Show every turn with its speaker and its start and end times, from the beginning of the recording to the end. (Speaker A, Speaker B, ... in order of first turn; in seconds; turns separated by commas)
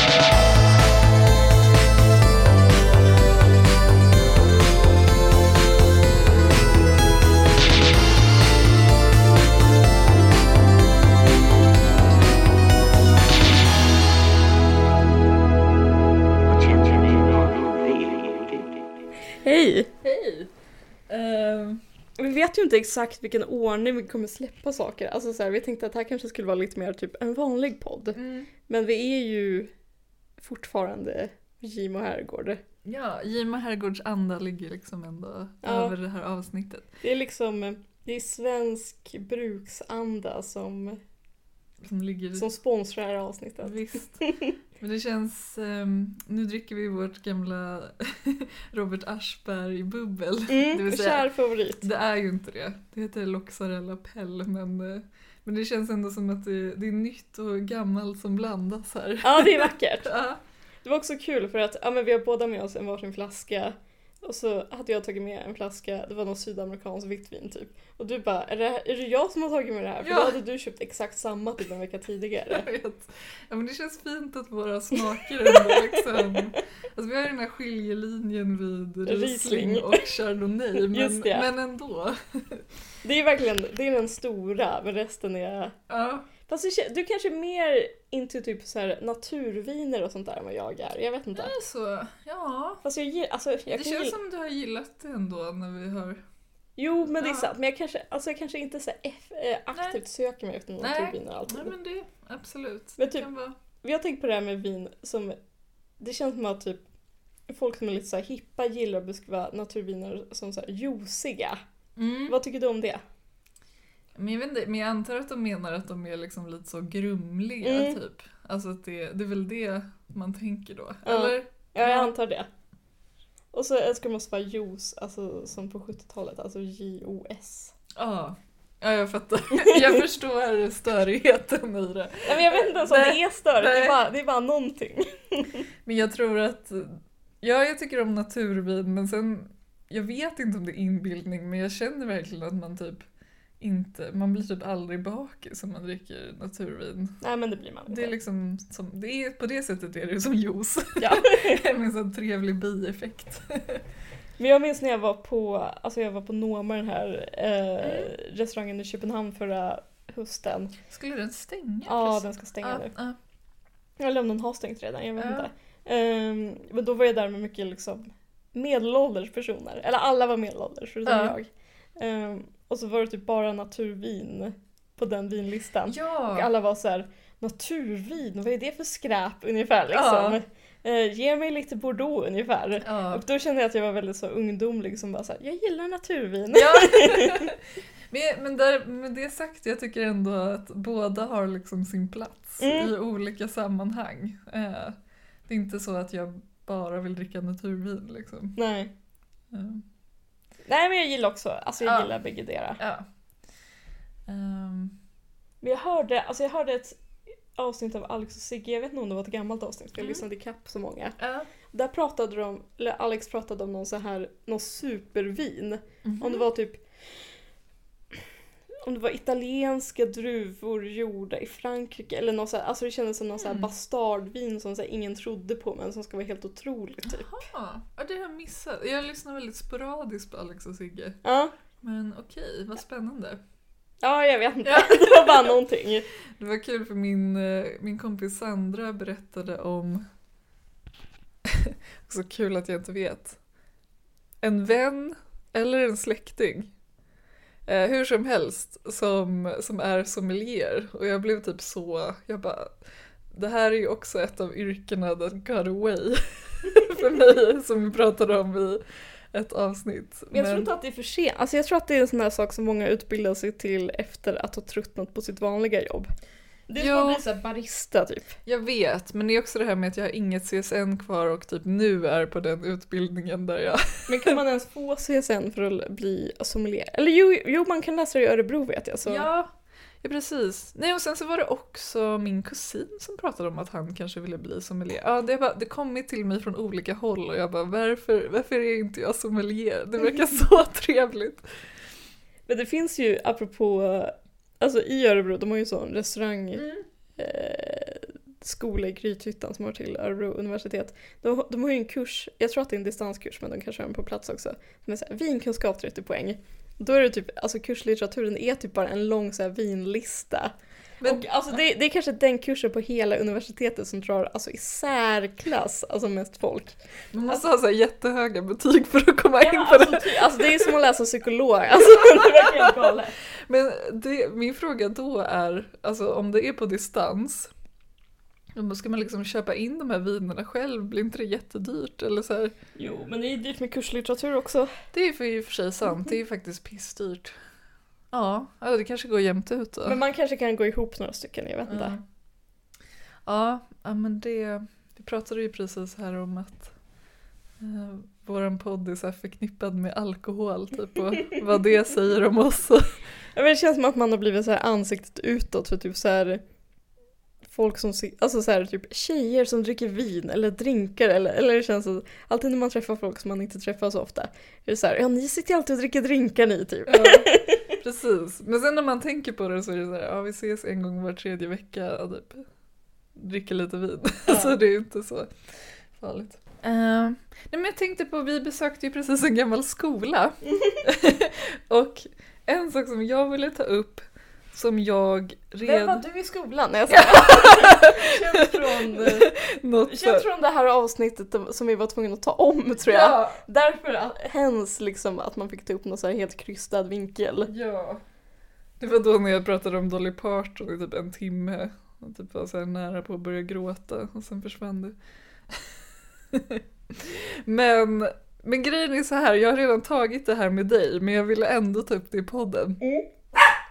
Speaker A: 16.5-18.9, Speaker B: 19.3-19.9, Speaker C: 20.0-20.5, Speaker C: 21.1-21.8, Speaker B: 22.2-29.7, Speaker C: 28.1-28.5, Speaker B: 30.4-32.6, Speaker C: 32.8-36.9, Speaker B: 35.6-35.9, Speaker B: 37.0-41.0, Speaker C: 41.8-42.5, Speaker B: 42.3-44.5, Speaker C: 43.6-44.2, Speaker C: 44.8-51.3, Speaker B: 50.5-51.9, Speaker C: 51.8-60.4, Speaker B: 59.2-60.1, Speaker B: 60.8-72.7, Speaker C: 70.0-70.4, Speaker C: 72.5-82.6, Speaker B: 75.0-76.6, Speaker B: 79.0-80.0, Speaker B: 80.8-81.5, Speaker B: 83.0-85.8, Speaker C: 85.9-86.3, Speaker B: 86.5-91.5, Speaker C: 91.3-92.8, Speaker B: 92.8-94.2, Speaker C: 93.7-96.2, Speaker B: 96.8-101.7, Speaker C: 97.0-97.5, Speaker C: 99.7-100.0, Speaker C: 100.8-103.6, Speaker B: 103.0-103.3, Speaker B: 103.8-105.4, Speaker B: 106.0-106.8, Speaker B: 107.5-111.6, Speaker C: 112.0-112.4, Speaker B: 112.3-113.0, Speaker C: 114.1-122.1, Speaker B: 117.6-118.0, Speaker B: 121.0-122.5, Speaker B: 123.5-127.7, Speaker C: 128.0-134.0, Speaker B: 129.6-130.0, Speaker B: 132.3-135.7, Speaker C: 135.8-143.0, Speaker C: 143.6-147.2, Speaker B: 147.2-148.1, Speaker C: 147.9-153.8, Speaker B: 151.0-151.6, Speaker B: 154.4-160.8, Speaker C: 157.8-158.1, Speaker C: 160.9-163.2, Speaker B: 161.9-162.9, Speaker B: 164.0-187.5, Speaker C: 165.2-165.5, Speaker C: 171.1-171.4, Speaker C: 175.9-176.5, Speaker C: 179.9-180.4, Speaker C: 182.8-183.2, Speaker C: 186.5-198.6, Speaker B: 192.6-192.9, Speaker B: 198.6-198.9, Speaker C: 199.5-199.8, Speaker B: 200.7-202.8, Speaker C: 201.8-202.1, Speaker C: 202.8-203.1, Speaker C: 204.3-205.0, Speaker B: 205.6-207.0, Speaker B: 207.6-211.2, Speaker C: 211.2-211.5, Speaker B: 211.7-216.8, Speaker C: 216.0-216.5, Speaker B: 218.8-227.4, Speaker C: 223.4-223.7, Speaker C: 227.1-231.2, Speaker B: 231.2-231.5, Speaker C: 231.8-233.4, Speaker B: 234.0-236.1, Speaker C: 234.6-235.6, Speaker C: 236.4-240.1, Speaker C: 241.4-243.4, Speaker C: 244.4-246.7, Speaker C: 247.7-252.7, Speaker C: 253.3-258.8, Speaker C: 259.3-260.7, Speaker B: 260.3-266.1, Speaker B: 266.7-268.4, Speaker C: 266.8-267.2, Speaker C: 268.4-274.4, Speaker B: 274.1-279.3, Speaker C: 279.1-291.4, Speaker B: 292.5-317.4, Speaker C: 296.6-296.8, Speaker C: 311.0-311.2, Speaker C: 317.1-320.7, Speaker B: 319.4-323.1, Speaker C: 321.9-327.5, Speaker C: 328.6-332.5, Speaker B: 332.8-334.7, Speaker C: 334.9-337.4, Speaker C: 338.1-340.0, Speaker B: 339.9-341.9, Speaker C: 341.7-342.0, Speaker C: 343.2-346.7, Speaker C: 347.6-352.9, Speaker B: 353.3-356.4, Speaker B: 357.5-367.8, Speaker C: 366.9-372.4, Speaker C: 373.1-375.4, Speaker B: 374.3-374.6, Speaker C: 375.9-386.0, Speaker B: 380.5-380.8, Speaker B: 385.6-389.3, Speaker C: 386.9-390.3, Speaker B: 389.8-397.5, Speaker C: 392.9-393.4, Speaker C: 397.5-398.0, Speaker C: 398.8-405.0, Speaker C: 405.5-405.8, Speaker C: 406.3-412.8, Speaker B: 412.8-413.1